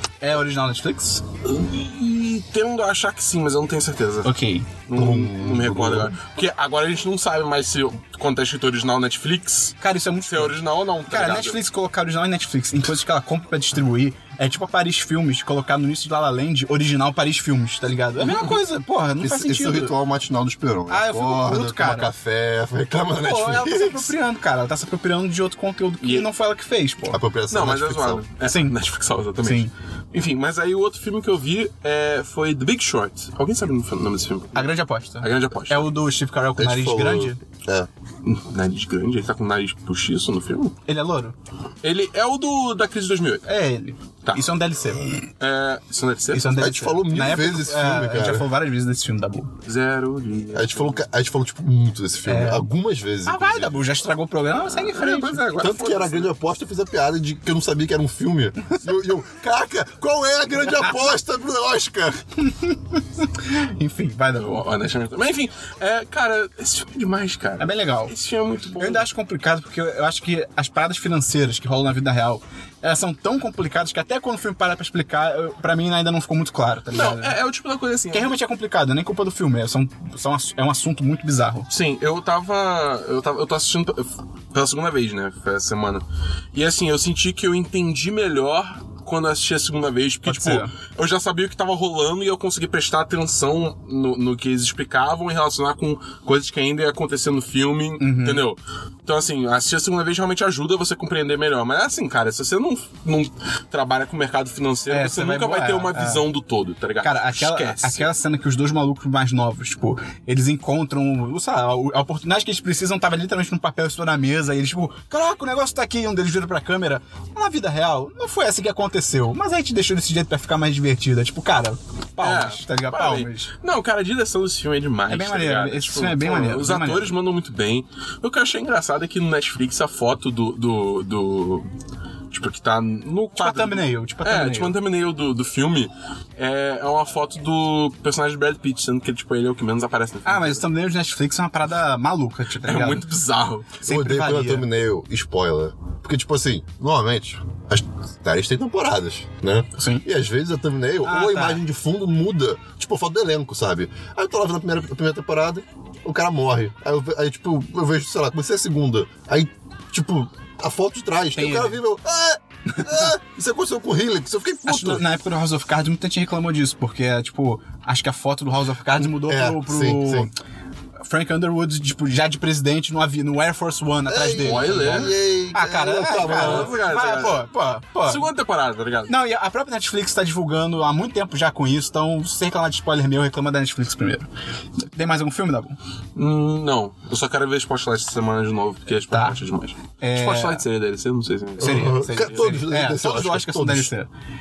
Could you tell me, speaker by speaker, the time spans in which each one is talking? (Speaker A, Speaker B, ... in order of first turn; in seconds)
Speaker A: 0.2-1.2, 4.2-4.7, 9.8-20.0, 20.9-22.1, 23.2-27.2, 28.4-28.8, 29.4-29.7, 34.5-37.4, 40.9-41.4, 43.5-45.3, 46.3-49.5, 52.2-52.7, 53.2-55.9, 62.4-64.7, 67.6-68.1, 68.8-77.3, 78.1-81.7, 90.2-90.7, 98.0-98.5, 104.9-106.3, 107.0-123.5, 125.1-127.2, 133.3-134.8, 140.2-143.1, 143.8-144.7, 149.8-150.1, 151.0-151.6, 161.3-161.8, 162.7-163.1, 164.7-170.3, 171.0-178.3, 179.1-184.3, 184.9-185.8, 189.1-189.4, 190.0-190.6, 191.6-194.1
Speaker B: 1.4-4.3, 4.9-11.6, 18.2-18.6, 26.0-26.3, 27.5-35.9, 38.2-40.8, 41.8-43.5, 45.4-46.5, 49.6-51.0, 54.9-56.2, 64.4-69.0, 76.9-78.3, 81.7-108.1, 122.2-131.7, 132.3-140.6, 142.6-143.8, 174.4-175.1, 176.2-177.4, 178.0-179.1, 186.2-192.6
Speaker C: 4.9-6.2, 19.2-24.1, 27.1-28.2, 36.6-37.9, 46.5-48.5, 50.5-53.9, 55.0-62.2, 143.8-165.0, 169.0-170.3, 174.1-176.7, 191.6-193.9